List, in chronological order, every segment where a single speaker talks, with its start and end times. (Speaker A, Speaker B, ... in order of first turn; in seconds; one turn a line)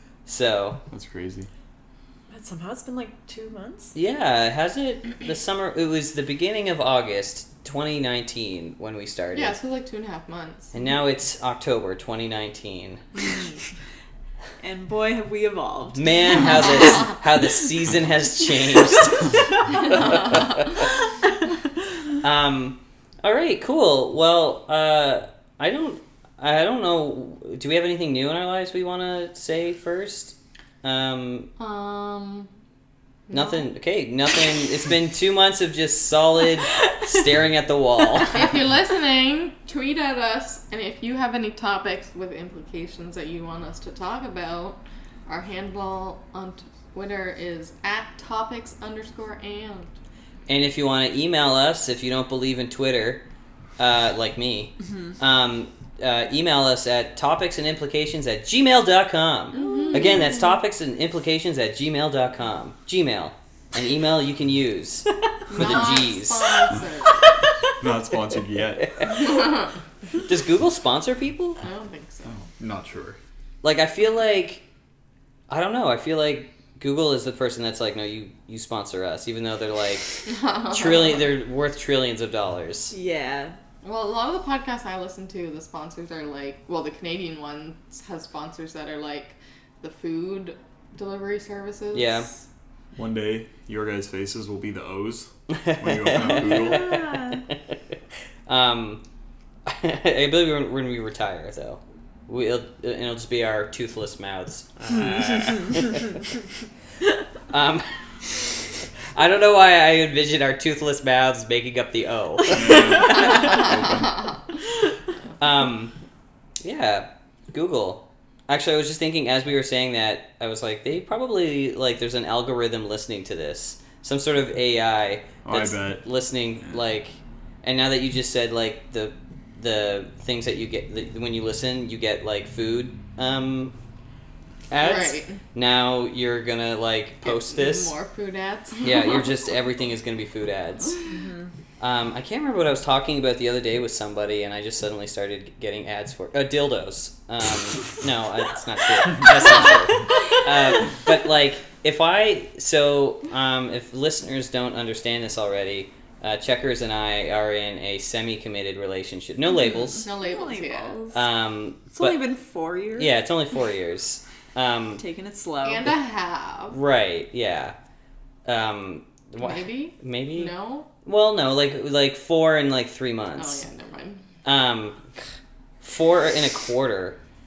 Speaker A: 0.2-0.8
Speaker B: 0.9-1.5
Speaker C: 2.3-3.9
Speaker A: 3.9-9.5
Speaker D: 9.3-10.7
Speaker A: 10.7-13.0
Speaker C: 14.6-16.6
Speaker A: 15.9-20.8
Speaker D: 16.4-17.0
Speaker D: 19.8-20.6
Speaker A: 22.2-31.5
Speaker D: 31.6-32.5
Speaker D: 33.3-33.6
Speaker A: 33.3-38.5
Speaker C: 36.7-37.2
Speaker D: 38.2-49.9
Speaker A: 50.5-53.2
Speaker A: 53.8-66.6
Speaker C: 54.8-55.1
Speaker D: 59.5-60.4
Speaker D: 65.5-67.4
Speaker B: 67.8-68.9
Speaker A: 68.8-69.4
Speaker D: 69.1-69.7
Speaker A: 70.2-71.6
Speaker D: 71.6-72.4
Speaker B: 72.3-73.2
Speaker A: 73.6-74.6
Speaker A: 75.5-80.2
Speaker D: 80.2-81.3
Speaker A: 80.7-82.9
Speaker C: 82.9-83.5
Speaker D: 83.8-92.4
Speaker A: 91.9-92.3
Speaker B: 92.9-96.9
Speaker A: 95.5-97.8
Speaker C: 96.2-97.4
Speaker A: 98.5-99.0
Speaker A: 99.7-106.2
Speaker A: 107.5-107.9
Speaker A: 109.1-113.7
Speaker B: 112.5-114.3
Speaker C: 112.7-113.7
Speaker D: 113.3-113.6
Speaker A: 115.4-115.9
Speaker A: 116.6-133.7
Speaker B: 125.4-126.0
Speaker A: 134.7-137.9
Speaker D: 134.8-135.4
Speaker D: 137.2-139.2
Speaker A: 138.8-140.9
Speaker C: 141.1-141.5
Speaker A: 141.8-160.1
Speaker C: 159.6-161.2
Speaker D: 160.0-161.0
Speaker A: 161.1-162.2
Speaker C: 161.9-163.1
Speaker A: 163.0-165.0
Speaker C: 165.0-165.9
Speaker D: 165.6-166.8
Speaker A: 166.7-167.7
Speaker A: 168.4-173.6
Speaker D: 169.4-170.9
Speaker D: 173.4-174.2
Speaker A: 174.4-175.1
Speaker A: 175.8-177.2